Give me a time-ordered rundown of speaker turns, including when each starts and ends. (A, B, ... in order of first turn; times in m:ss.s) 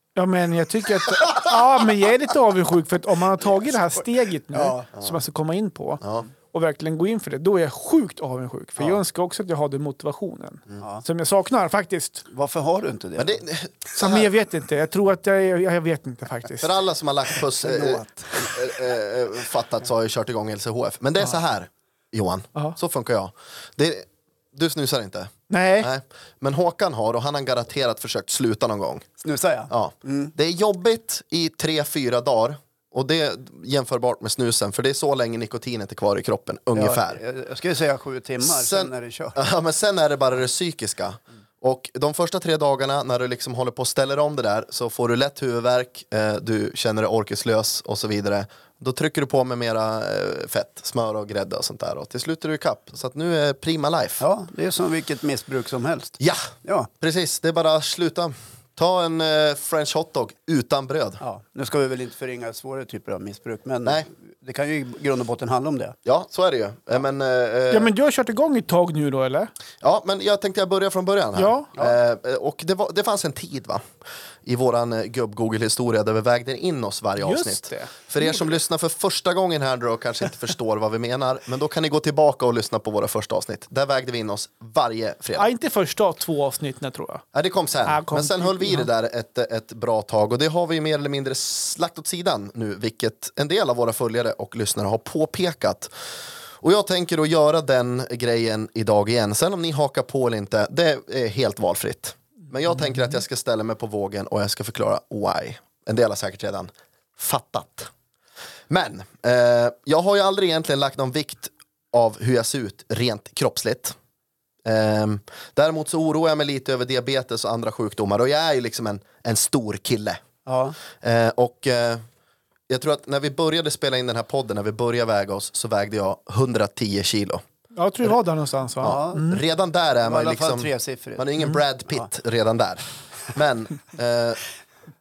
0:00.2-0:12.2 A
0:04.5-0:04.8 B
0:06.0-0:06.3 C
0:12.3-0:13.4 B
0:13.2-0:14.3 C
0:13.9-0:16.7 A
0:16.6-0:29.1 C
0:17.6-0:18.6 B
0:25.5-0:25.9 A
0:29.2-0:30.3 B
0:29.7-0:37.2 C
0:36.7-0:39.4 B
0:38.4-0:54.2 C
0:54.2-0:56.9 B
0:56.2-1:01.2 C
1:01.2-1:06.0 B
1:06.0-1:07.9 C
1:07.7-1:09.5 A
1:09.8-1:13.8 C
1:11.4-1:11.7 A
1:14.4-1:25.5 C
1:17.2-1:18.4 A
1:25.4-1:27.2 A
1:27.3-1:35.9 C
1:27.8-1:28.9 A
1:36.6-1:47.9 C
1:48.7-1:53.9 C
1:54.6-2:00.2 C
2:00.4-2:00.8 B
2:01.0-2:02.0 C
2:02.7-2:07.4 C
2:07.7-2:09.4 A
2:08.8-2:14.4 C
2:08.8-2:09.4 B
2:10.0-2:11.3 B